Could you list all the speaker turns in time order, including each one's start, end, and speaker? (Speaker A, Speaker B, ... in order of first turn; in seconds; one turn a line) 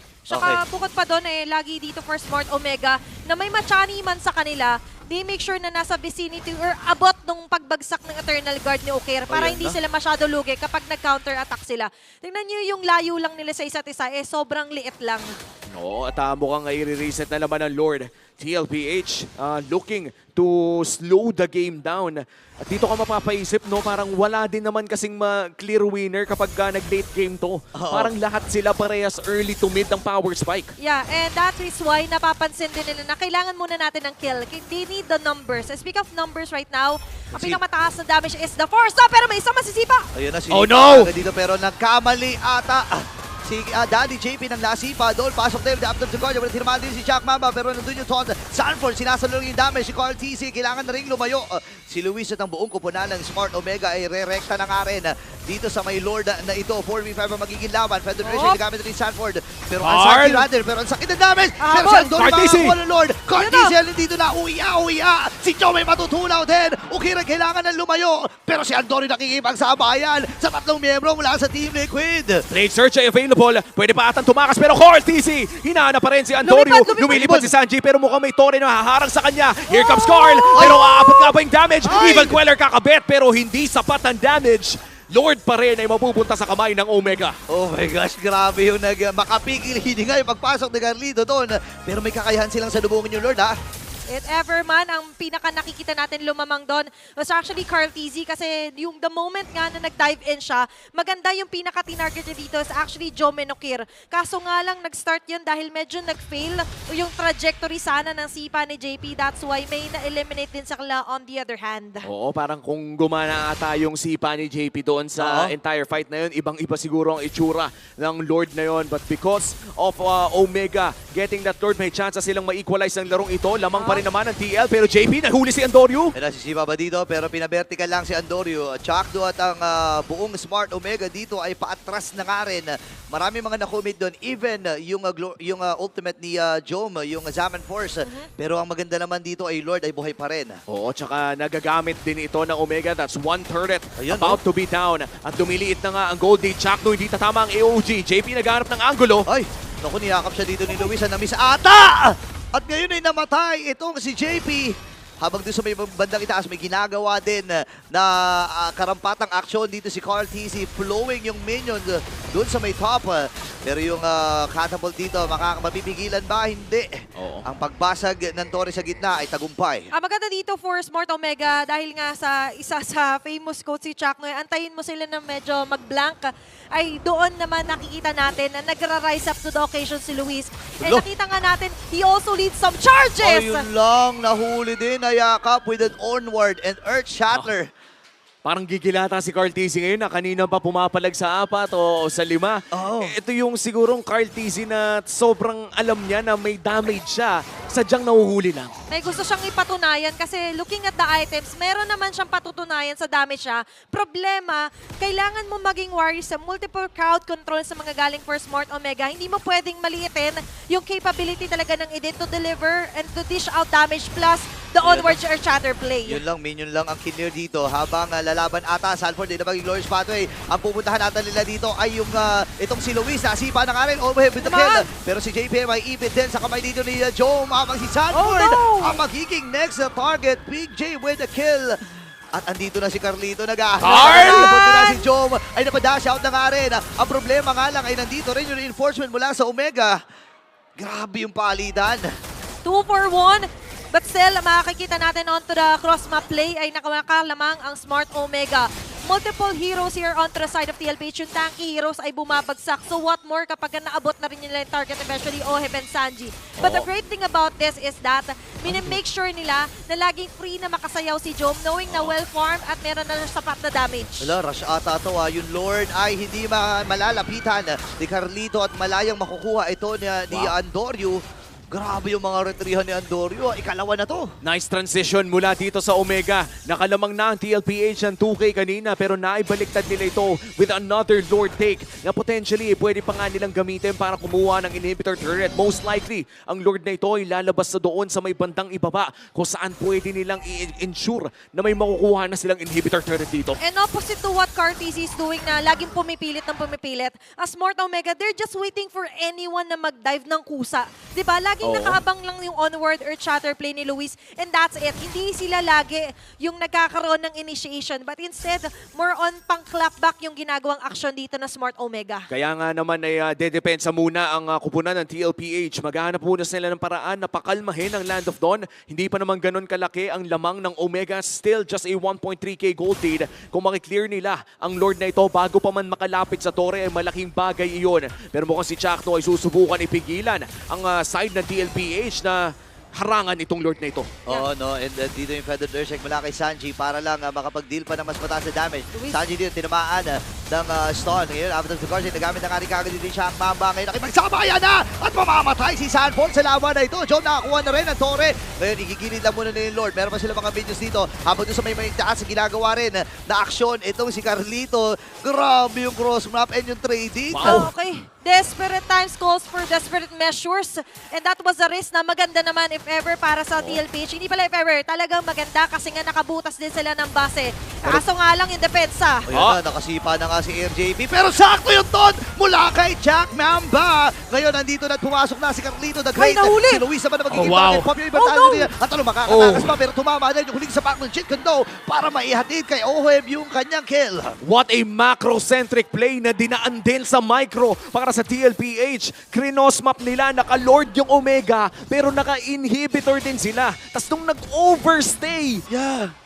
Speaker A: 0.3-15.3
Speaker B: 0.3-0.6
Speaker B: 9.3-9.8
Speaker C: 15.7-30.7
Speaker B: 27.8-28.1
Speaker A: 30.8-40.1
Speaker B: 37.3-37.6
Speaker B: 40.1-72.4
Speaker C: 40.5-41.1
Speaker A: 58.2-58.6
Speaker C: 59.8-60.5
Speaker A: 61.6-62.3
Speaker C: 62.1-62.8
Speaker A: 63.3-63.7
Speaker C: 72.5-87.4
Speaker A: 76.4-77.1
Speaker B: 77.1-77.5
Speaker A: 79.7-81.3
Speaker B: 81.8-82.4
Speaker B: 87.5-93.5
Speaker A: 94.1-112.1
Speaker C: 112.0-126.2
Speaker B: 115.2-115.5
Speaker A: 123.7-124.0
Speaker B: 126.2-140.6
Speaker A: 138.0-138.3
Speaker C: 140.7-149.3
Speaker B: 144.0-144.4
Speaker B: 149.3-166.9
Speaker C: 167.2-167.4
Speaker B: 167.5-169.9
Speaker A: 169.9-183.7
Speaker B: 183.2-187.7
Speaker C: 188.4-198.7
Speaker B: 192.7-193.1
Speaker A: 198.9-216.2
Speaker B: 214.8-215.2
Speaker B: 216.1-231.8
Speaker A: 224.4-224.9
Speaker A: 228.1-229.0
Speaker B: 232.3-240.0
Speaker C: 233.8-234.5
Speaker A: 233.8-235.0
Speaker B: 240.8-242.1
Speaker A: 242.7-264.3
Speaker C: 256.6-256.9
Speaker C: 261.9-262.1
Speaker B: 264.2-271.2
Speaker C: 270.3-270.6
Speaker B: 271.7-274.3
Speaker C: 274.4-293.6
Speaker A: 293.6-312.3
Speaker C: 301.6-302.0
Speaker C: 312.3-334.1
Speaker B: 334.3-357.7
Speaker A: 338.9-339.2
Speaker C: 357.3-357.7
Speaker A: 357.4-369.3
Speaker B: 369.3-384.4
Speaker C: 369.3-369.6
Speaker A: 376.1-376.8
Speaker C: 377.3-377.9
Speaker A: 378.1-378.7
Speaker C: 379.3-379.7
Speaker C: 384.4-395.7
Speaker B: 395.7-396.1